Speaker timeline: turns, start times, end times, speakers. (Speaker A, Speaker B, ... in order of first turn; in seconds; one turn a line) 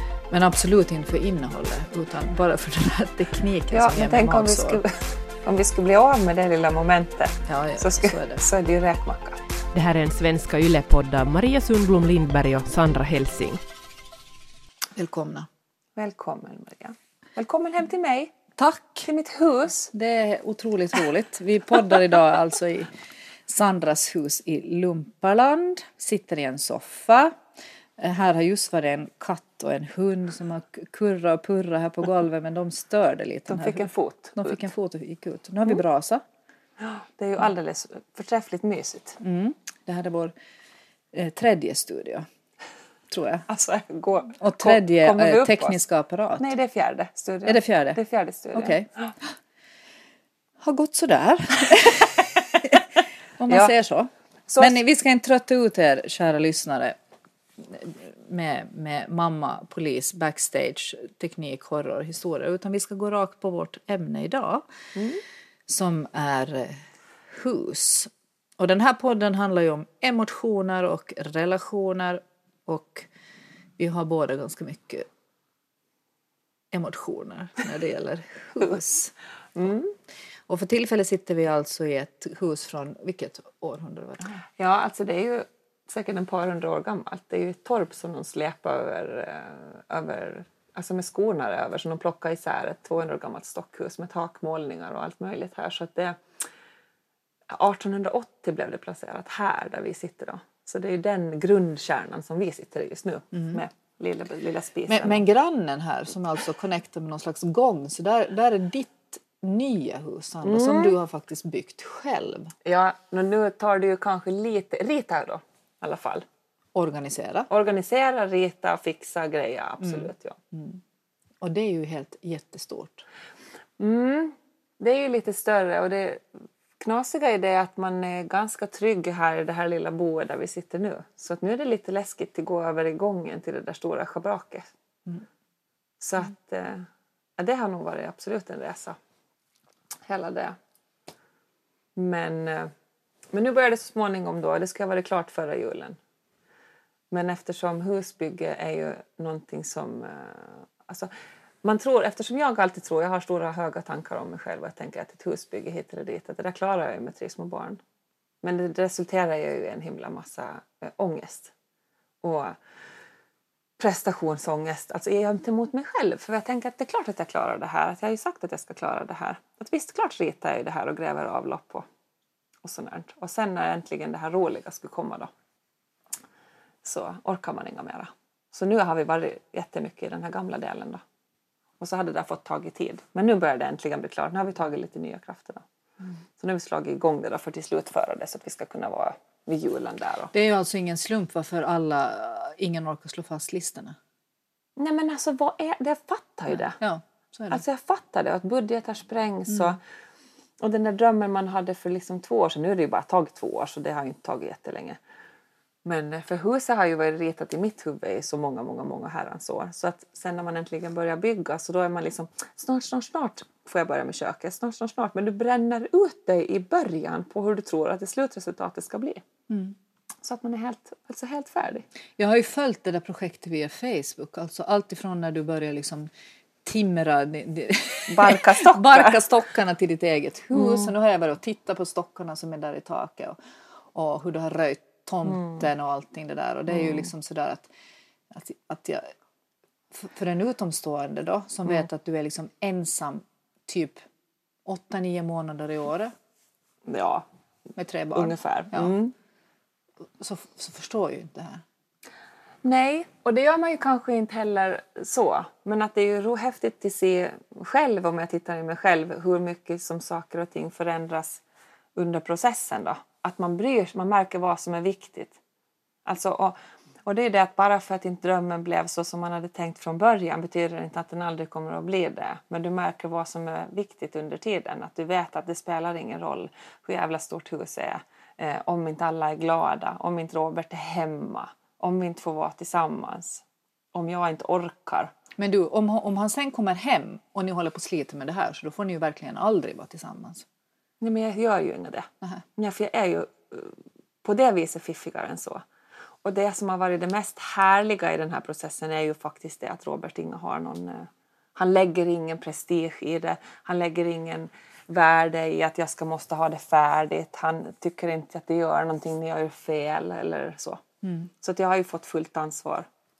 Speaker A: 0.3-4.8
Speaker B: 3.7-9.4
Speaker A: 7.5-8.4
Speaker C: 9.7-13.6
Speaker A: 15.0-15.5
Speaker B: 16.0-18.4
Speaker A: 18.6-19.1
Speaker B: 19.0-19.9
Speaker A: 19.9-22.9
Speaker A: 23.5-27.4
Speaker A: 28.0-36.2
Speaker B: 33.5-34.7
Speaker B: 36.8-39.2
Speaker A: 39.2-40.3
Speaker A: 41.1-42.3
Speaker A: 43.1-43.5
Speaker B: 43.5-45.8
Speaker A: 44.4-46.5
Speaker B: 46.4-49.1
Speaker A: 47.5-48.0
Speaker A: 48.5-49.3
Speaker A: 50.6-57.0
Speaker B: 54.5-54.8
Speaker A: 57.6-64.7
Speaker B: 65.0-65.2
Speaker A: 65.7-73.1
Speaker A: 73.8-75.1
Speaker A: 76.7-79.1
Speaker B: 79.5-79.9
Speaker A: 80.5-84.4
Speaker B: 84.5-96.2
Speaker B: 97.5-105.2
Speaker A: 103.3-103.6
Speaker A: 104.9-112.5
Speaker B: 110.4-111.0
Speaker B: 112.7-116.3
Speaker A: 116.8-117.5
Speaker B: 117.5-120.4
Speaker A: 119.8-120.8
Speaker A: 121.4-123.0
Speaker B: 123.8-126.3
Speaker B: 126.8-134.7
Speaker B: 136.0-139.0
Speaker B: 140.1-140.6
Speaker B: 142.0-142.7
Speaker B: 143.3-146.0
Speaker B: 147.1-151.1
Speaker B: 151.6-157.8
Speaker B: 158.4-161.5
Speaker B: 162.2-162.6
Speaker B: 163.8-171.9
Speaker B: 172.6-175.3
Speaker B: 176.8-181.0
Speaker B: 181.8-185.6
Speaker B: 186.4-190.3
Speaker A: 190.3-194.0
Speaker B: 194.8-196.8
Speaker A: 196.7-197.6
Speaker B: 197.5-199.8
Speaker B: 200.6-205.0
Speaker B: 205.8-219.2
Speaker A: 219.5-219.8
Speaker B: 220.2-221.9
Speaker A: 222.2-226.1
Speaker A: 226.7-233.4
Speaker B: 228.1-229.2
Speaker B: 230.5-230.9
Speaker A: 233.9-237.7
Speaker B: 236.7-237.0
Speaker A: 238.3-239.1
Speaker A: 239.9-244.0
Speaker A: 244.7-246.1
Speaker B: 246.9-247.3
Speaker A: 247.8-248.9
Speaker B: 248.2-249.1
Speaker A: 250.2-251.6
Speaker B: 252.6-261.4
Speaker B: 261.9-265.4
Speaker B: 266.1-285.1
Speaker A: 285.4-290.5
Speaker B: 291.0-295.6
Speaker B: 296.2-310.8
Speaker A: 311.0-311.3
Speaker B: 311.4-312.9